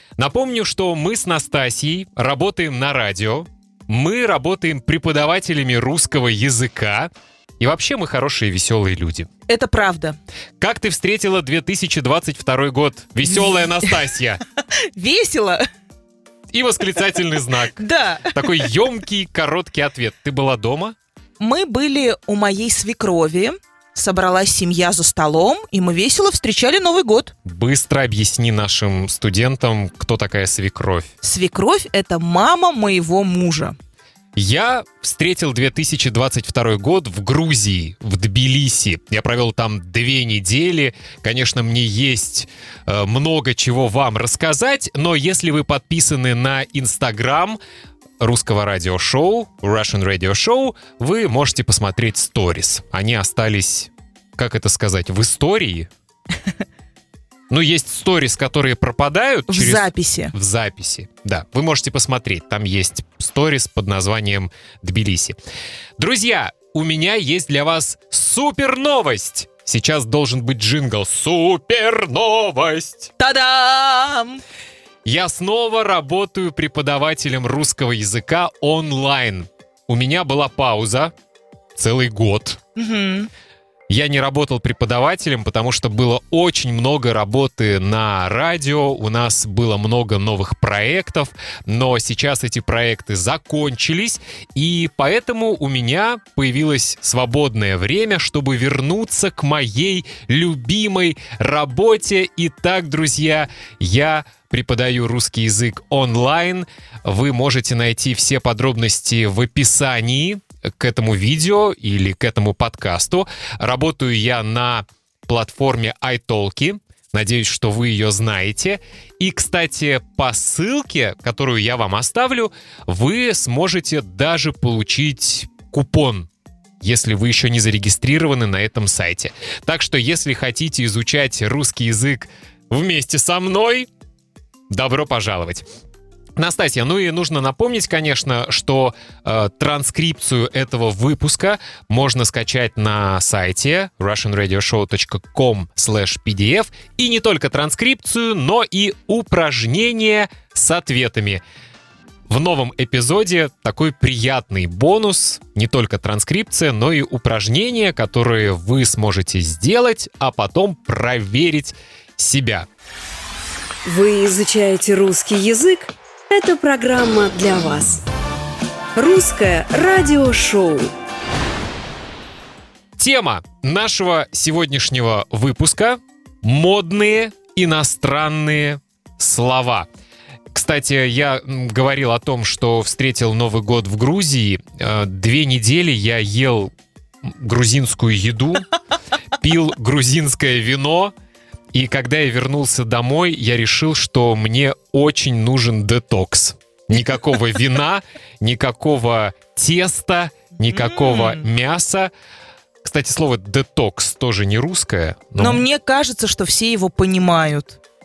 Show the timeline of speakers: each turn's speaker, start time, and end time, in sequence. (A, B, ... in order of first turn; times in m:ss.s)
0:00.2-0:09.3 A
0:09.5-0:10.2 B
0:10.6-0:14.4 A
0:14.7-0:15.6 B
0:16.5-0:21.0 A
0:17.8-0:18.5 B
0:21.4-0:27.3 B
0:27.4-0:31.1 A
0:31.2-0:33.8 B
0:34.4-0:47.6 A
0:48.2-0:55.9 A
0:57.5-1:05.4 A
0:59.5-1:00.3 B
1:06.0-1:13.1 A
1:13.2-1:14.4 B
1:15.0-1:21.1 A
1:21.8-1:22.6 A
1:22.8-1:23.3 B
1:23.9-2:06.3 A
2:06.8-2:13.9 A
2:14.7-2:15.6 A
2:16.4-2:31.4 A
2:32.3-2:42.7 A
2:43.8-2:48.0 C
2:49.0-2:50.9 C
2:53.0-2:59.9 A
3:00.5-3:06.7 A
3:07.2-3:08.7 A
3:09.4-3:11.1 A
3:11.7-3:22.1 A
3:20.9-3:21.4 B
3:22.8-3:25.6 A
3:25.4-3:27.8 B